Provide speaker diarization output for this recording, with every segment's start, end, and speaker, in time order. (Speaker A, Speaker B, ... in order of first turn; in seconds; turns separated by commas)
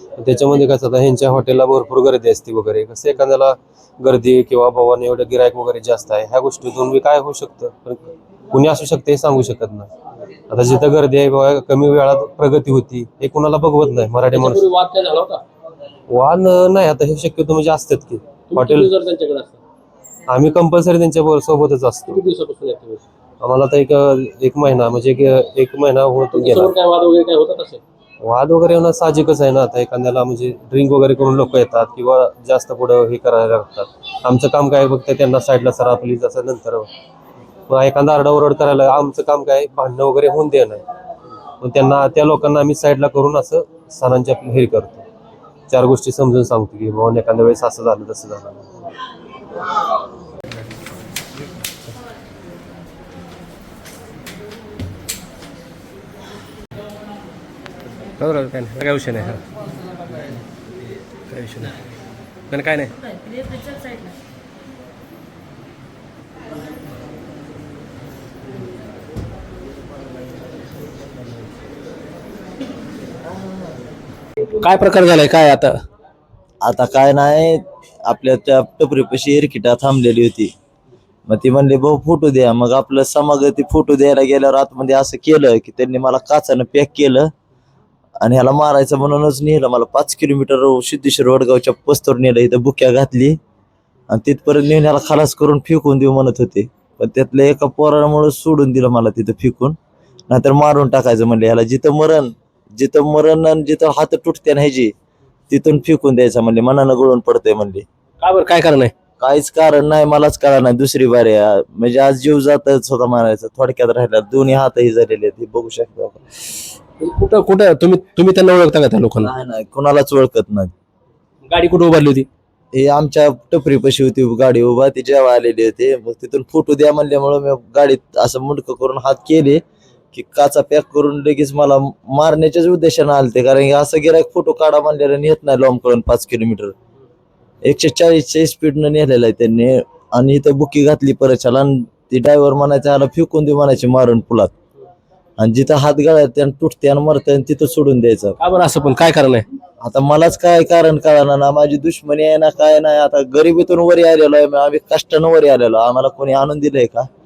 Speaker A: 0.2-9.9, Speaker A: 10.5-14.6, Speaker B: 14.3-15.4, Speaker A: 16.1-18.9, Speaker B: 18.5-19.6, Speaker A: 20.3-22.2, Speaker B: 22.1-23.0, Speaker A: 23.4-26.7, Speaker B: 26.3-27.8, Speaker A: 28.2-36.9, Speaker A: 37.7-40.8, Speaker A: 41.6-45.1, Speaker A: 45.7-48.6, Speaker B: 58.2-59.4, Speaker B: 61.3-61.7, Speaker B: 62.5-62.9, Speaker B: 74.6-75.8, Speaker C: 76.6-80.5, Speaker C: 81.3-87.3, Speaker C: 88.2-93.4, Speaker C: 94.1-99.8, Speaker C: 100.3-104.9, Speaker C: 105.5-107.8, Speaker B: 108.2-108.9, Speaker C: 109.2-116.2, Speaker B: 117.0-119.3, Speaker C: 119.2-120.7, Speaker B: 121.5-122.3, Speaker C: 122.7-129.6, Speaker C: 130.1-136.7, Speaker C: 137.6-144.5, Speaker C: 145.4-148.4, Speaker B: 148.4-149.5, Speaker C: 149.8-157.1